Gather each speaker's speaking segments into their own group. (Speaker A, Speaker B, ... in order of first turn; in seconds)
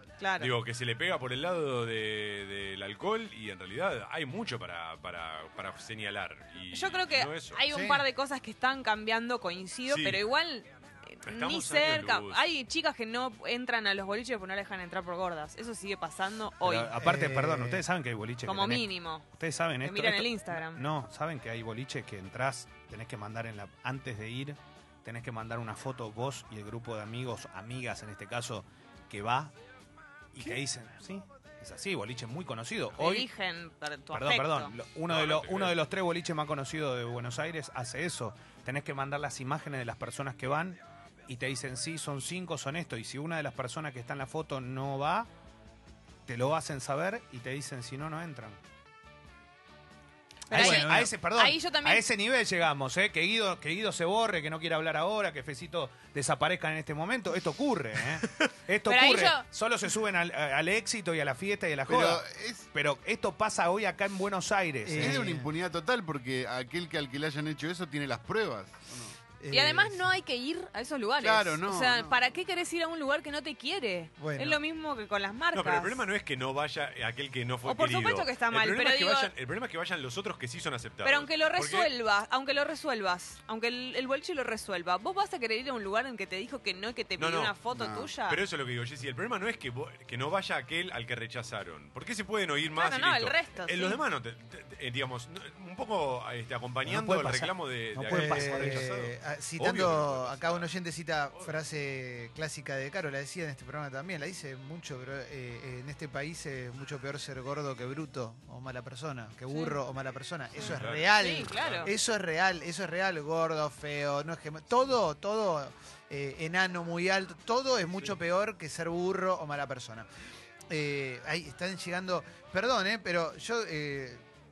Speaker A: 0.2-0.5, 6.7-17.0, 18.4-19.2, 19.8-20.8, 33.0-34.7, 50.5-52.0, 58.9-59.5, 69.5-76.0, 77.6-79.3, 81.0-88.4, 92.7-94.0, 109.5-109.8, 110.6-111.9
Speaker B: 0.4-7.6, 9.9-10.2, 11.2-12.4, 35.1-35.8, 75.5-81.9, 87.2-87.5, 88.3-100.7, 110.6-111.9
Speaker C: 7.7-8.0, 17.0-17.8, 50.5-51.1, 64.8-65.5, 69.4-70.1, 74.2-74.6, 98.1-120.1, 120.7-124.2
Speaker D: 16.6-29.5, 30.3-33.3, 34.1-45.3, 46.2-48.6, 50.5-65.3, 96.8-98.9
Speaker E: 61.9-62.7, 65.0-69.2, 71.2-72.3, 87.7-88.1